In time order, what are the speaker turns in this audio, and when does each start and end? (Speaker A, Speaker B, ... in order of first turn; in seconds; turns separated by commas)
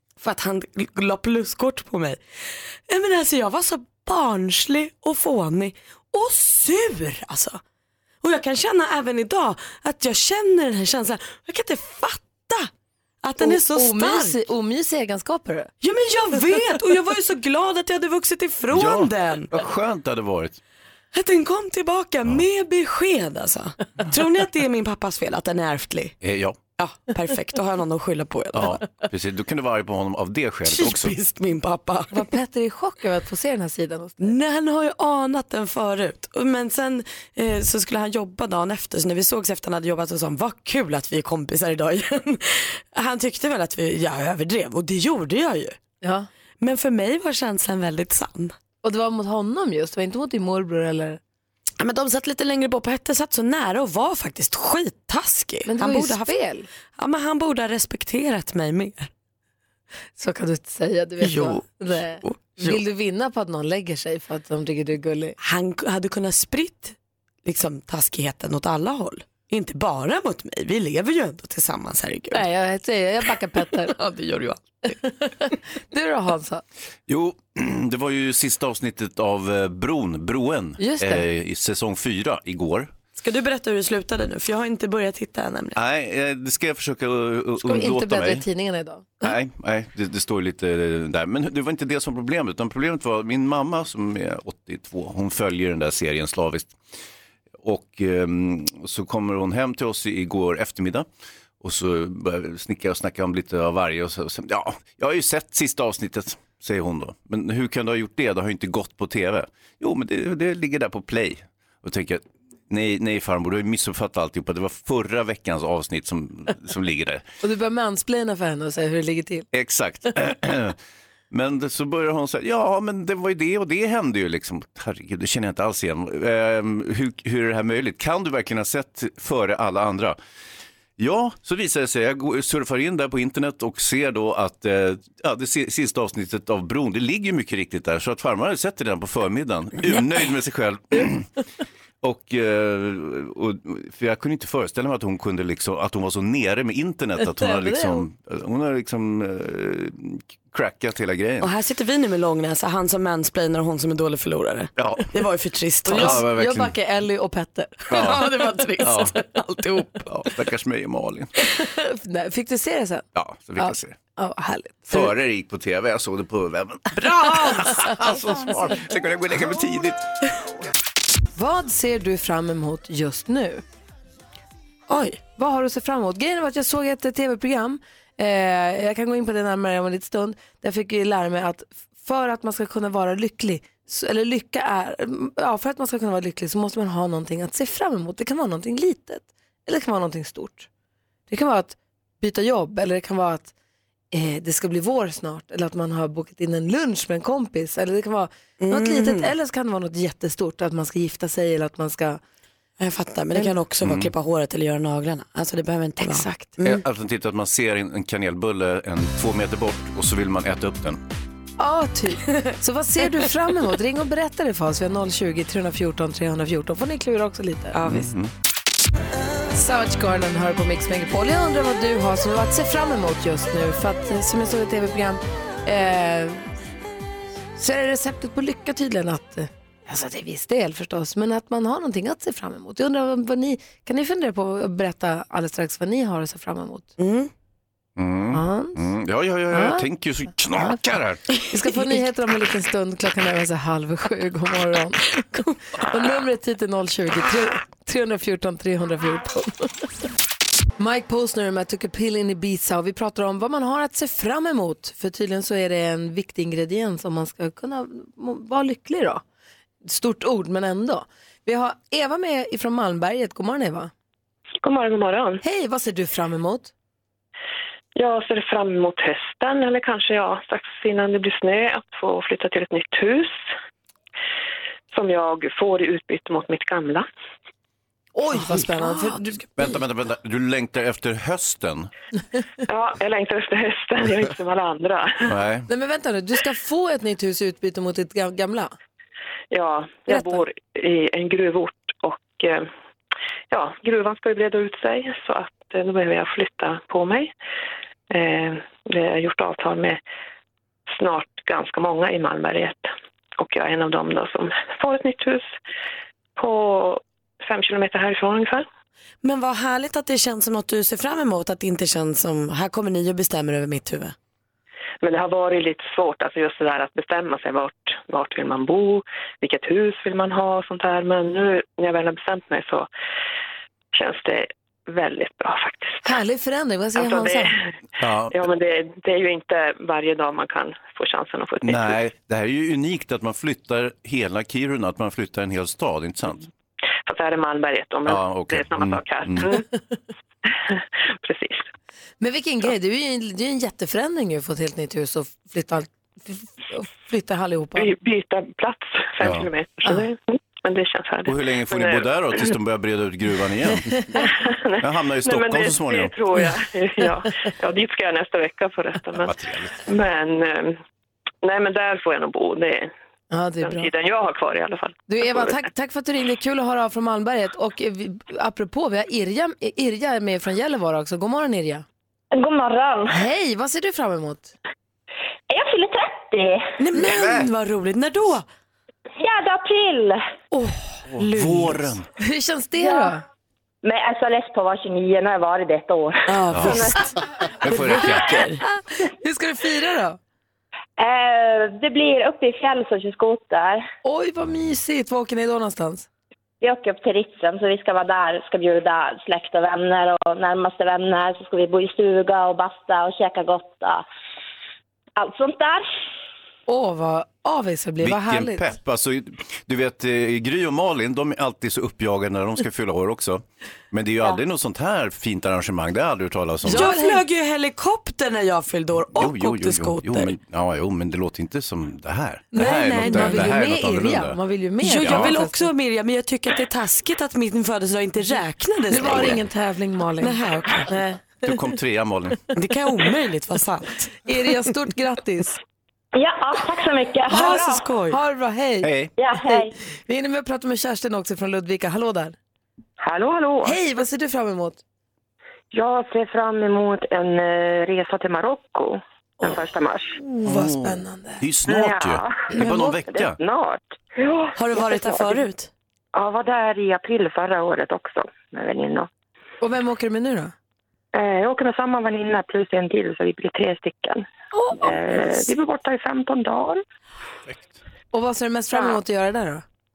Speaker A: 0.2-2.2, Speaker A: 2.9-7.6, Speaker A: 8.2-12.7, Speaker A: 13.2-14.3, Speaker B: 13.4-15.7, Speaker A: 15.8-19.5, Speaker C: 18.7-20.6, Speaker A: 21.1-26.1, Speaker C: 26.2-26.6, Speaker A: 26.8-28.8, Speaker C: 28.5-31.1, Speaker A: 30.6-32.2, Speaker B: 32.1-34.3, Speaker A: 34.2-45.8, Speaker B: 46.0-46.3, Speaker A: 46.6-48.5, Speaker B: 48.8-51.2, Speaker A: 51.8-56.3, Speaker B: 55.7-56.7, Speaker A: 57.0-59.1, Speaker B: 60.2-65.3, Speaker A: 61.2-62.8, Speaker A: 65.4-72.4, Speaker B: 72.3-73.9, Speaker A: 73.7-74.6, Speaker B: 74.9-76.6, Speaker C: 77.1-82.9, Speaker B: 80.8-81.2, Speaker A: 83.2-85.8, Speaker C: 85.8-88.4, Speaker B: 87.6-89.3, Speaker C: 89.2-96.8, Speaker C: 97.6-101.0, Speaker C: 101.6-117.2, Speaker B: 117.4-119.5, Speaker C: 119.5-120.8, Speaker C: 121.3-130.2, Speaker C: 131.0-141.3, Speaker C: 142.0-151.5, Speaker B: 147.4-148.0, Speaker A: 151.4-156.2, Speaker C: 154.8-155.1, Speaker B: 155.8-157.9, Speaker C: 155.9-156.7, Speaker A: 157.9-160.1, Speaker C: 157.9-159.2, Speaker C: 160.1-161.3, Speaker B: 161.6-163.0, Speaker C: 163.1-163.9, Speaker B: 163.6-165.1, Speaker C: 164.9-170.1, Speaker B: 171.3-173.6, Speaker A: 174.9-175.2, Speaker B: 175.4-190.7, Speaker B: 191.3-193.5, Speaker B: 194.1-202.2, Speaker A: 198.6-199.3, Speaker A: 202.8-206.8, Speaker C: 203.8-204.1, Speaker B: 206.0-206.5, Speaker C: 206.6-211.0, Speaker B: 211.6-217.8, Speaker A: 217.7-218.1, Speaker C: 217.9-218.3, Speaker B: 219.5-226.5, Speaker B: 227.6-236.9, Speaker A: 237.0-237.3, Speaker C: 238.0-241.2, Speaker B: 238.3-238.8, Speaker B: 239.5-239.8, Speaker B: 241.4-249.8, Speaker B: 250.8-259.2, Speaker B: 259.8-263.9, Speaker D: 264.6-265.4, Speaker B: 265.4-266.7, Speaker D: 267.9-273.4, Speaker D: 274.9-277.1, Speaker B: 278.1-279.4, Speaker A: 278.5-279.2, Speaker C: 279.6-281.9, Speaker D: 282.6-285.3, Speaker C: 285.2-285.7, Speaker B: 285.7-288.7, Speaker D: 289.5-292.7, Speaker B: 290.1-290.4, Speaker D: 293.5-297.3, Speaker D: 298.1-300.0, Speaker D: 300.9-305.5, Speaker D: 306.4-308.6, Speaker A: 309.2-314.1, Speaker D: 315.0-322.9, Speaker D: 323.9-326.1, Speaker B: 326.0-327.5, Speaker D: 326.9-327.7, Speaker C: 328.0-328.4, Speaker D: 328.3-332.0, Speaker C: 331.6-336.5, Speaker D: 337.1-339.6, Speaker C: 338.1-339.6, Speaker D: 340.5-341.7, Speaker B: 342.2-347.9, Speaker D: 347.8-352.1, Speaker C: 349.2-349.5, Speaker C: 351.2-354.1, Speaker D: 354.1-360.8, Speaker C: 354.8-356.1, Speaker C: 359.1-359.8, Speaker D: 361.4-362.9, Speaker B: 363.3-363.9, Speaker D: 363.6-365.6, Speaker B: 365.1-371.8, Speaker E: 372.3-373.2, Speaker B: 373.1-374.5, Speaker E: 375.5-376.7, Speaker A: 376.8-378.4, Speaker C: 376.9-377.5, Speaker E: 379.2-380.2, Speaker A: 380.5-381.9, Speaker C: 381.1-382.1, Speaker B: 382.2-383.2, Speaker E: 382.8-383.1, Speaker E: 383.8-387.0, Speaker A: 386.3-387.0, Speaker C: 386.5-387.0, Speaker C: 387.6-388.5, Speaker A: 387.6-388.6, Speaker B: 389.0-390.2, Speaker E: 391.0-393.8, Speaker B: 394.0-396.1, Speaker E: 396.6-404.0, Speaker E: 405.1-405.9, Speaker B: 406.7-408.6, Speaker C: 408.0-416.9, Speaker B: 416.6-417.2, Speaker A: 416.7-420.3, Speaker C: 419.1-424.4, Speaker B: 422.5-425.6, Speaker A: 422.6-423.5, Speaker A: 424.8-429.4, Speaker C: 425.0-425.4, Speaker B: 428.9-431.6, Speaker C: 428.9-429.4, Speaker A: 430.2-430.9, Speaker C: 431.4-432.4, Speaker A: 432.5-434.3, Speaker B: 434.2-435.6, Speaker E: 436.1-437.8, Speaker A: 437.3-438.2, Speaker B: 437.3-438.9, Speaker C: 438.8-439.1, Speaker E: 439.2-439.7, Speaker B: 439.4-442.4, Speaker D: 443.0-443.8, Speaker B: 443.6-444.8, Speaker D: 445.7-450.2, Speaker B: 450.2-451.4, Speaker C: 450.4-453.4, Speaker D: 451.7-455.4, Speaker B: 452.5-452.9, Speaker A: 454.6-455.7, Speaker D: 456.1-459.1, Speaker B: 459.6-460.5, Speaker D: 461.1-464.2, Speaker B: 464.5-465.4, Speaker D: 464.8-466.8, Speaker B: 468.1-469.6